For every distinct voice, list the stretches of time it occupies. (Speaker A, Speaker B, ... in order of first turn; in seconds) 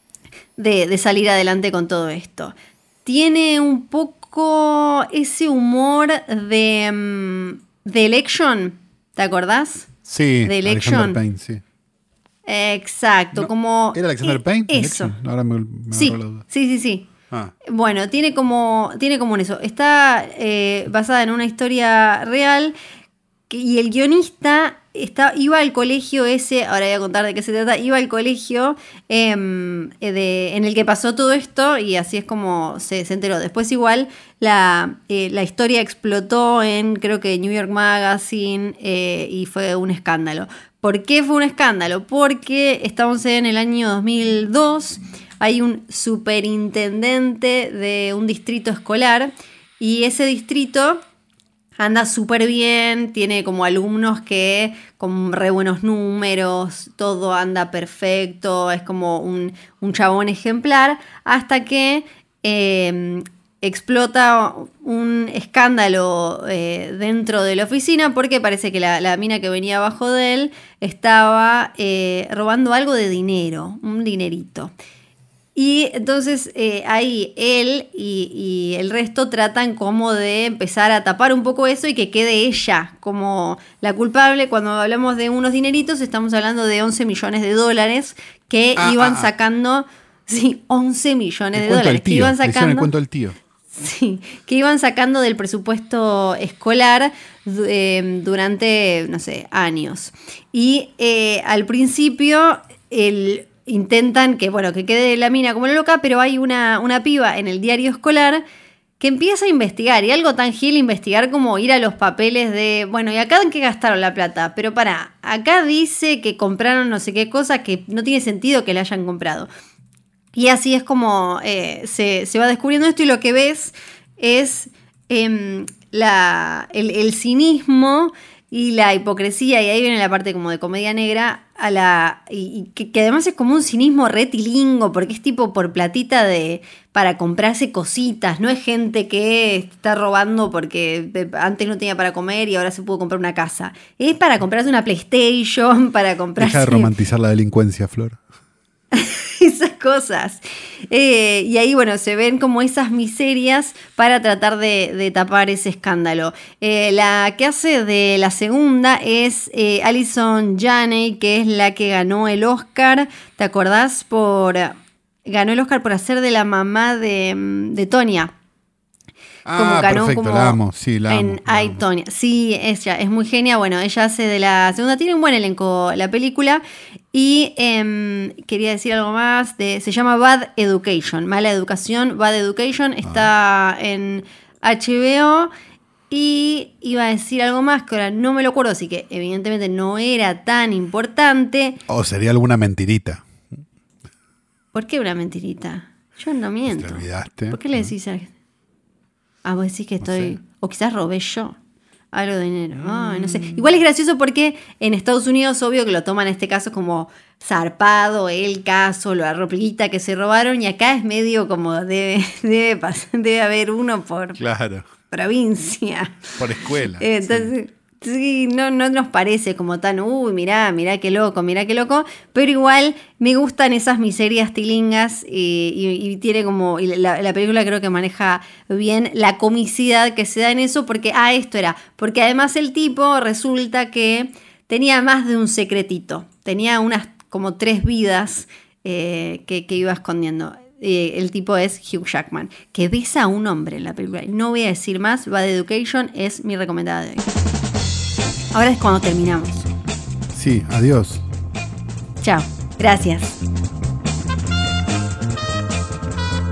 Speaker A: 0.6-11.2, 12.4-15.2, 15.9-17.1, 17.6-22.7, 23.5-51.0, 51.8-74.7, 75.5-92.9, 93.7-108.4, 109.0-119.5, 120.3-146.9, 148.9-168.3, 169.5-185.5, 186.1-191.8, 194.7-198.3, 199.4-201.6, 202.1-214.4, 215.1-247.3, 248.5-249.7, 252.2-253.3
Speaker B: 10.1-11.6, 13.3-16.4, 88.8-89.3, 91.5-93.4, 146.4-148.2, 169.4-171.8, 191.9-193.2, 196.7-197.9, 200.0-200.3, 202.8-203.6, 214.4-214.8, 216.4-217.5, 250.3-251.2